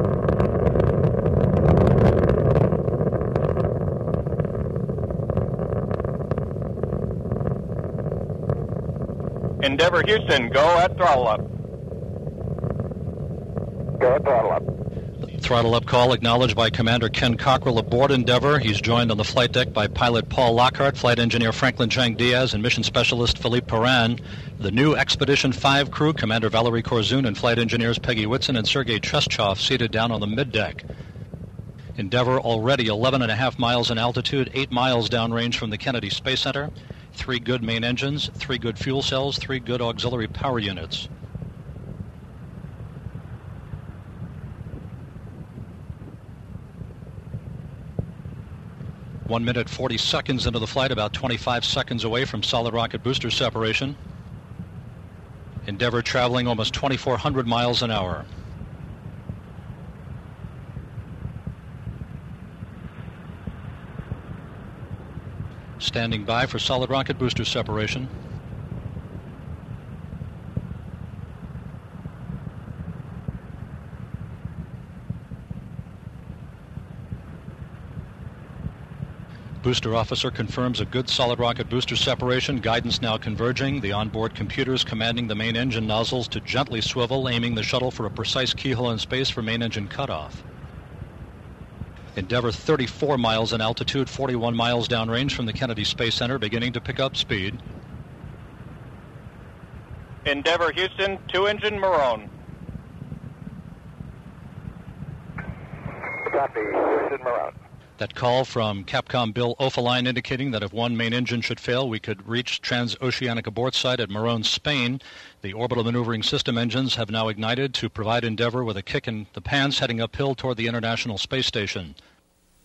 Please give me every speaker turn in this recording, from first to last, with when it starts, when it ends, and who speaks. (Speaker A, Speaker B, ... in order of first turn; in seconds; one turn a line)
Speaker A: 9.6-11.4
Speaker B: 14.0-14.6
Speaker C: 15.3-30.8
Speaker C: 31.9-41.1
Speaker C: 49.2-54.0
Speaker C: 55.6-58.3
Speaker C: 65.8-68.1
Speaker C: 79.6-90.4
Speaker C: 92.1-97.6
Speaker A: 100.2-102.3
Speaker B: 106.2-107.5
Speaker C: 108.0-122.0